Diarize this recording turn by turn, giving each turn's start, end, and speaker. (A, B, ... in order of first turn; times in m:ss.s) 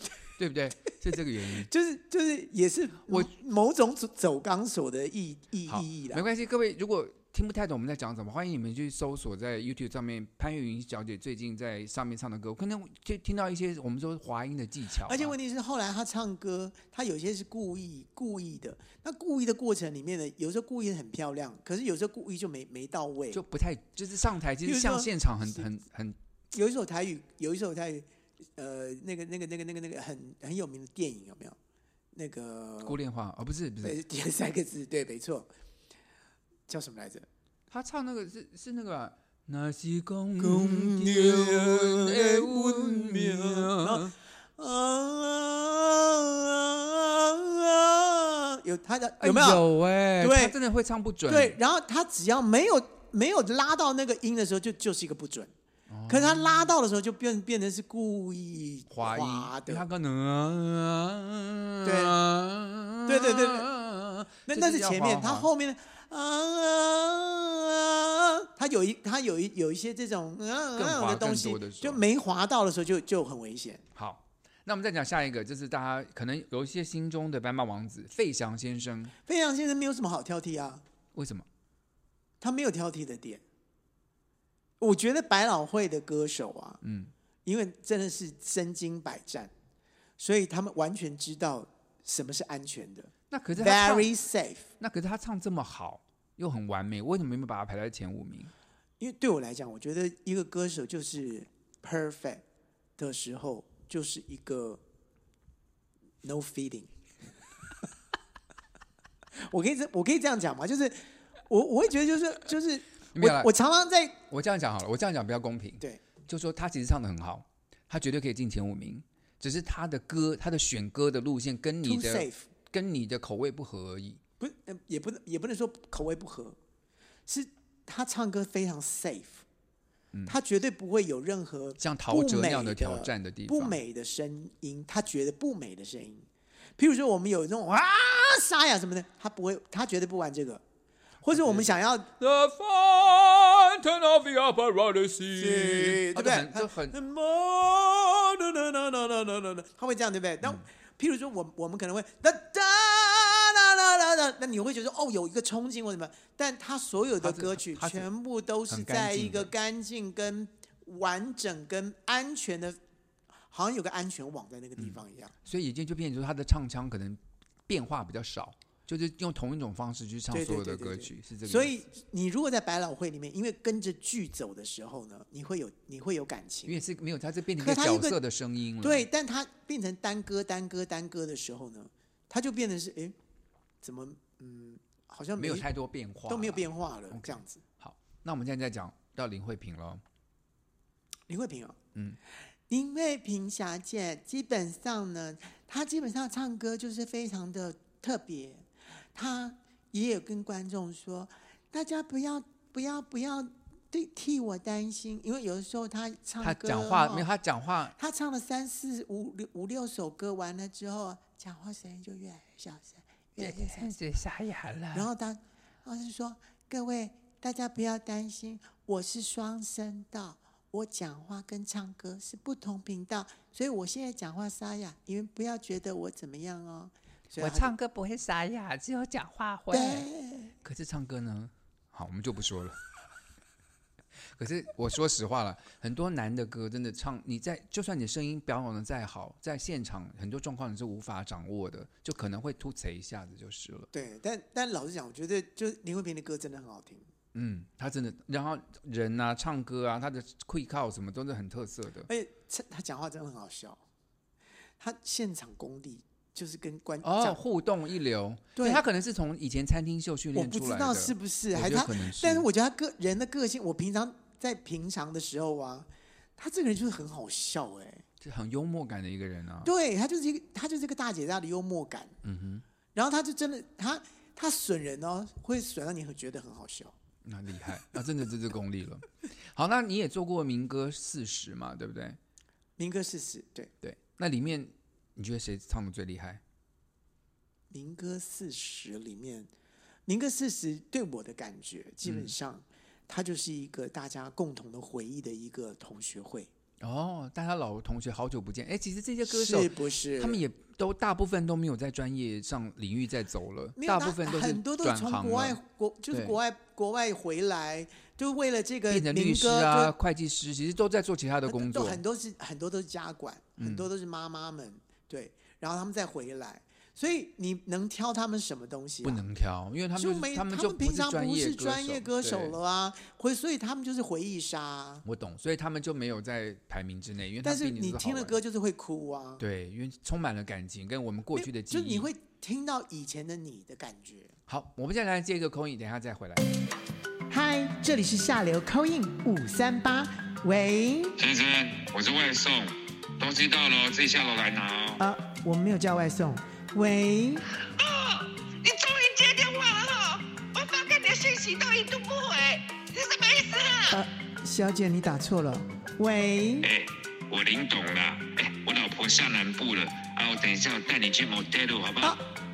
0:00.4-0:01.7 A
0:01.6-0:06.2 B
0:05.7-0:15.3 A
0:15.1-0:23.4 B
0:23.3-0:26.2 A
0:24.6-0:25.6 B
0:26.5-0:31.6 B
0:32.1-0:33.0 B
0:32.8-0:34.0 A
0:33.8-0:35.5 B
0:36.7-0:37.3 B
0:37.7-0:44.1 A
0:40.4-0:49.6 B
0:49.2-0:51.6 A
0:50.2-0:50.5 B
0:51.3-0:55.5 B
0:55.9-0:56.7 A
0:56.1-0:59.8 B
0:58.9-1:05.5 A
1:01.8-1:02.2 B
1:03.0-1:03.7 B
1:04.5-1:13.8 B
1:10.8-1:12.0 A
1:13.9-1:19.1 A
1:19.2-1:20.8 B
1:21.1-1:21.4 A
1:22.4-1:23.4 B
1:24.8-1:26.8 B
1:26.8-1:27.1 A
1:27.4-1:29.5 B
1:30.2-1:34.7 B
1:33.3-1:34.1 A
1:34.8-1:38.5 A
1:39.0-1:42.4 B
1:43.0-1:44.8 B
1:46.2-1:46.9 B
1:49.4-1:54.2 B
1:53.1-1:53.5 A
1:54.3-2:04.2 A
2:01.8-2:02.5 B
2:04.4-2:06.6 B
2:07.3-2:09.4 B
2:10.3-2:16.3 B
2:11.8-2:13.8 A
2:16.8-2:20.6 B
2:21.2-2:22.1 B
2:21.3-2:27.0 A
2:25.4-2:42.8 B
2:37.2-2:38.1 A
2:38.7-2:39.5 A
2:43.5-2:45.3 B
2:44.8-2:51.7 A
2:50.3-2:56.8 B
2:56.6-2:59.1 A
2:57.6-2:58.2 B
2:58.8-3:03.1 B
3:03.8-3:05.6 B
3:05.4-3:10.0 A
3:06.3-3:07.6 B
3:11.3-3:11.8 B
3:12.7-3:27.3 B
3:26.4-3:27.9 A
3:28.0-3:33.9 B
3:33.4-3:35.1 A
3:34.9-3:47.7 B
3:47.4-3:50.1 A
3:49.7-3:50.5 B
3:50.6-3:52.8 A
3:54.3-4:03.9 A
4:03.9-4:07.1 B
4:07.3-4:12.1 A
4:12.1-4:13.8 B
4:14.8-4:17.4 B
4:17.0-4:22.5 A
4:18.6-4:18.8 B
4:20.3-4:28.0 B
4:28.2-4:29.7 A
4:29.6-4:32.2 B
4:32.2-4:32.6 A
4:32.9-4:36.9 B
4:37.2-4:42.2 A
4:42.8-4:43.7 B
4:43.8-4:46.4 A
4:47.7-4:49.5 B
4:50.1-4:56.5 B
4:52.0-4:52.3 A
4:56.8-5:05.6 A
4:59.2-5:00.4 B
5:03.8-5:09.9 B
5:06.1-5:06.4 A
5:08.9-5:12.0 A
5:11.5-5:19.2 B
5:13.6-5:13.9 A
5:19.0-5:22.6 A
5:20.0-5:25.0 B
5:25.0-5:28.4 A
5:27.4-5:29.4 B
5:29.4-5:32.1 A
5:31.3-5:34.4 B
5:34.5-5:36.4 A
5:37.3-5:41.2 B
5:41.2-5:45.0 C
5:45.0-5:47.4 B
5:47.8-5:54.0 D
5:53.9-5:56.7 B
5:56.6-6:02.2 C